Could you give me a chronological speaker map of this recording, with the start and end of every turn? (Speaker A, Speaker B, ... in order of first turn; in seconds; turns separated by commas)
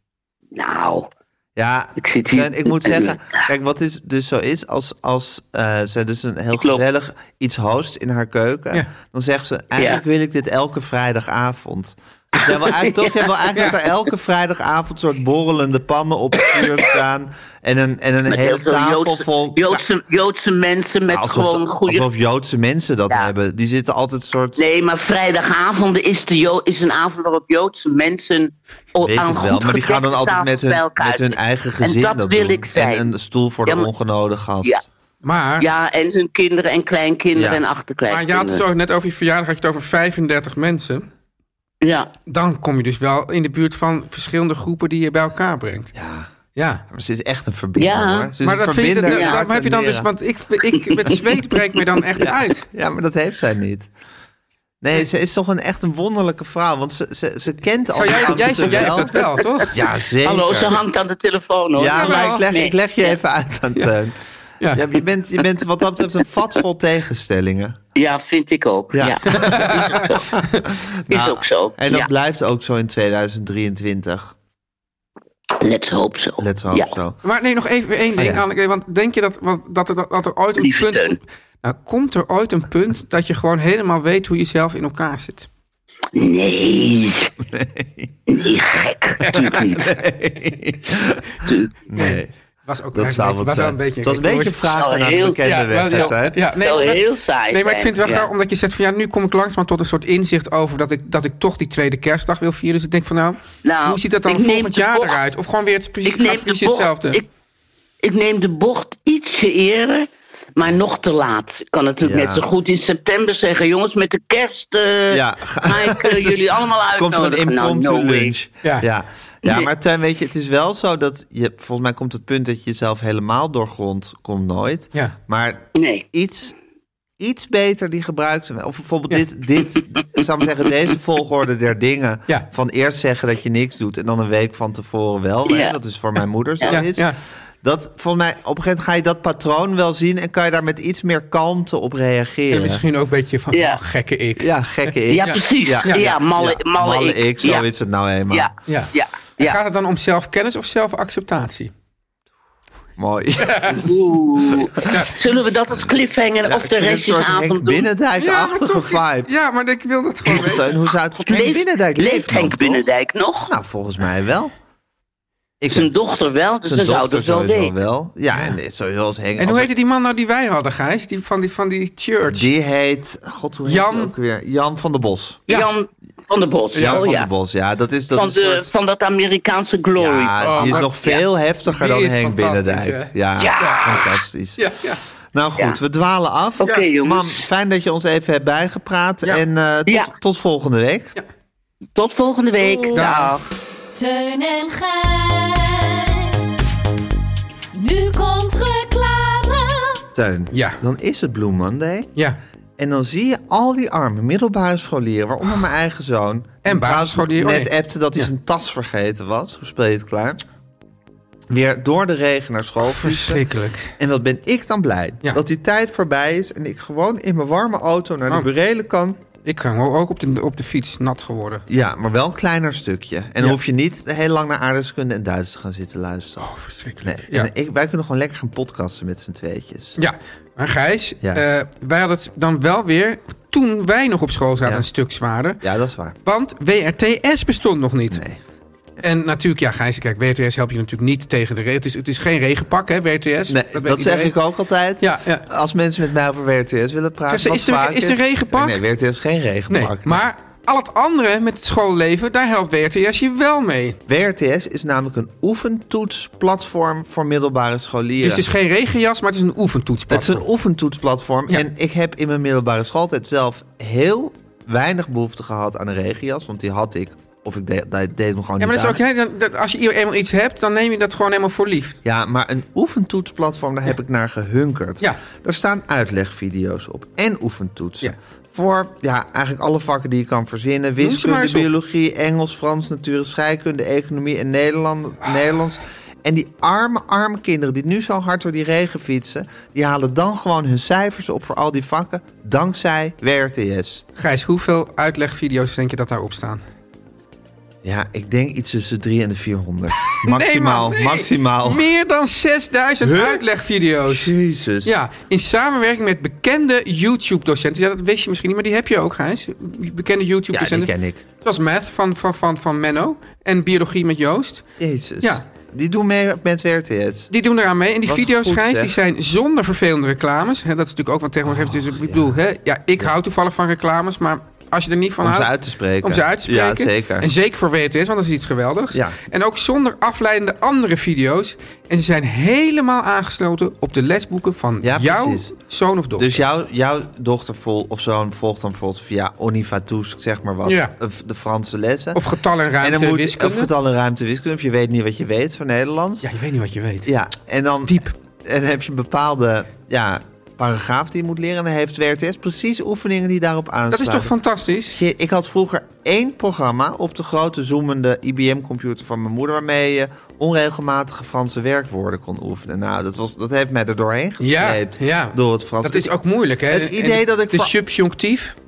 Speaker A: 0.5-1.1, Speaker B: 1.6-19.8, Speaker A: 2.0-3.4, Speaker A: 6.6-6.8, Speaker A: 9.8-10.0, Speaker A: 12.4-13.3, Speaker A: 18.3-22.1, Speaker B: 21.1-24.7, Speaker A: 24.6-33.1, Speaker B: 29.0-34.8, Speaker C: 35.2-35.7, Speaker A: 35.6-38.6, Speaker B: 37.3-37.6, Speaker C: 38.1-41.1, Speaker A: 41.8-42.1, Speaker C: 42.3-45.9, Speaker B: 46.0-46.3, Speaker C: 46.5-46.8, Speaker B: 46.9-50.1, Speaker A: 47.8-48.3, Speaker C: 48.4-52.7, Speaker A: 49.1-49.4, Speaker B: 52.2-53.9, Speaker B: 54.8-60.8, Speaker C: 57.9-59.8, Speaker A: 60.2-63.1, Speaker B: 61.8-64.2, Speaker C: 61.9-62.4, Speaker C: 64.6-64.9, Speaker B: 64.7-67.8, Speaker A: 68.0-70.4, Speaker B: 68.9-74.3, Speaker C: 69.3-70.6, Speaker A: 71.1-72.1, Speaker A: 75.6-77.0, Speaker B: 76.4-77.2, Speaker C: 77.2-85.5, Speaker B: 78.2-78.4, Speaker A: 80.6-81.2, Speaker A: 86.2-87.3, Speaker B: 87.5-88.2, Speaker A: 88.3-90.0, Speaker C: 89.2-89.9, Speaker B: 89.3-92.3, Speaker A: 91.5-91.7, Speaker C: 92.0-94.7, Speaker B: 92.9-96.4, Speaker A: 94.7-95.4, Speaker C: 95.4-107.2, Speaker A: 95.9-98.3, Speaker A: 103.6-105.2, Speaker A: 106.0-107.3, Speaker A: 108.0-118.3, Speaker B: 112.0-112.5, Speaker B: 115.1-126.5, Speaker A: 125.8-126.0, Speaker B: 127.2-142.8, Speaker A: 135.5-135.8, Speaker C: 136.7-137.2, Speaker C: 142.5-144.5, Speaker A: 143.5-143.8, Speaker B: 144.4-148.5, Speaker A: 145.1-147.7, Speaker C: 145.2-146.1, Speaker A: 148.3-149.6, Speaker C: 148.7-151.7, Speaker B: 153.0-154.9, Speaker C: 153.4-153.9, Speaker A: 153.7-157.9, Speaker C: 154.8-155.1, Speaker B: 156.4-159.3, Speaker C: 158.2-160.7, Speaker B: 160.3-162.9, Speaker A: 161.2-163.5, Speaker B: 163.5-164.5, Speaker B: 165.6-165.9, Speaker A: 165.7-167.7, Speaker B: 166.6-169.7, Speaker C: 169.4-172.5, Speaker B: 172.3-175.5, Speaker C: 173.7-174.1, Speaker A: 175.5-177.3, Speaker C: 176.7-177.2, Speaker B: 176.8-178.7, Speaker A: 178.1-181.2, Speaker B: 180.0-184.7, Speaker C: 180.4-180.9, Speaker C: 181.7-185.0, Speaker A: 183.4-184.0, Speaker B: 185.3-191.2, Speaker A: 186.6-187.4, Speaker A: 191.9-193.4, Speaker B: 192.6-193.3, Speaker C: 192.9-193.3, Speaker D: 193.9-196.5, Speaker D: 197.7-200.0, Speaker B: 200.1-202.1, Speaker C: 200.5-200.8, Speaker B: 202.8-210.4, Speaker C: 206.7-208.3, Speaker B: 211.5-213.4, Speaker C: 212.8-213.9, Speaker B: 214.0-219.2, Speaker C: 219.4-221.7, Speaker B: 221.7-226.5, Speaker C: 226.4-227.5, Speaker B: 227.0-230.0, Speaker C: 230.0-235.6, Speaker B: 235.6-236.2, Speaker C: 236.2-238.2, Speaker B: 238.1-238.4, Speaker C: 239.0-244.3, Speaker B: 243.5-250.2, Speaker C: 245.0-245.4, Speaker C: 247.3-248.8, Speaker C: 249.7-254.0, Speaker B: 254.1-258.5, Speaker C: 258.2-260.4, Speaker B: 260.1-269.0, Speaker C: 268.6-272.0, Speaker B: 272.0-294.1, Speaker C: 281.0-281.7, Speaker C: 294.2-296.6, Speaker B: 297.8-301.9, Speaker C: 300.1-314.7, Speaker B: 303.0-303.4, Speaker B: 304.1-304.9, Speaker B: 310.5-311.2, Speaker B: 314.8-317.3, Speaker C: 317.3-325.5, Speaker B: 318.1-318.9, Speaker B: 321.4-322.4, Speaker B: 325.2-327.3, Speaker C: 326.0-336.4, Speaker B: 334.8-335.5, Speaker B: 336.2-342.2, Speaker C: 340.6-340.9, Speaker C: 342.1-343.7, Speaker B: 342.8-346.3, Speaker C: 346.2-347.1, Speaker B: 347.1-354.3, Speaker C: 347.9-348.1, Speaker C: 353.9-355.0, Speaker B: 354.9-366.1, Speaker C: 364.4-368.6, Speaker B: 366.7-367.7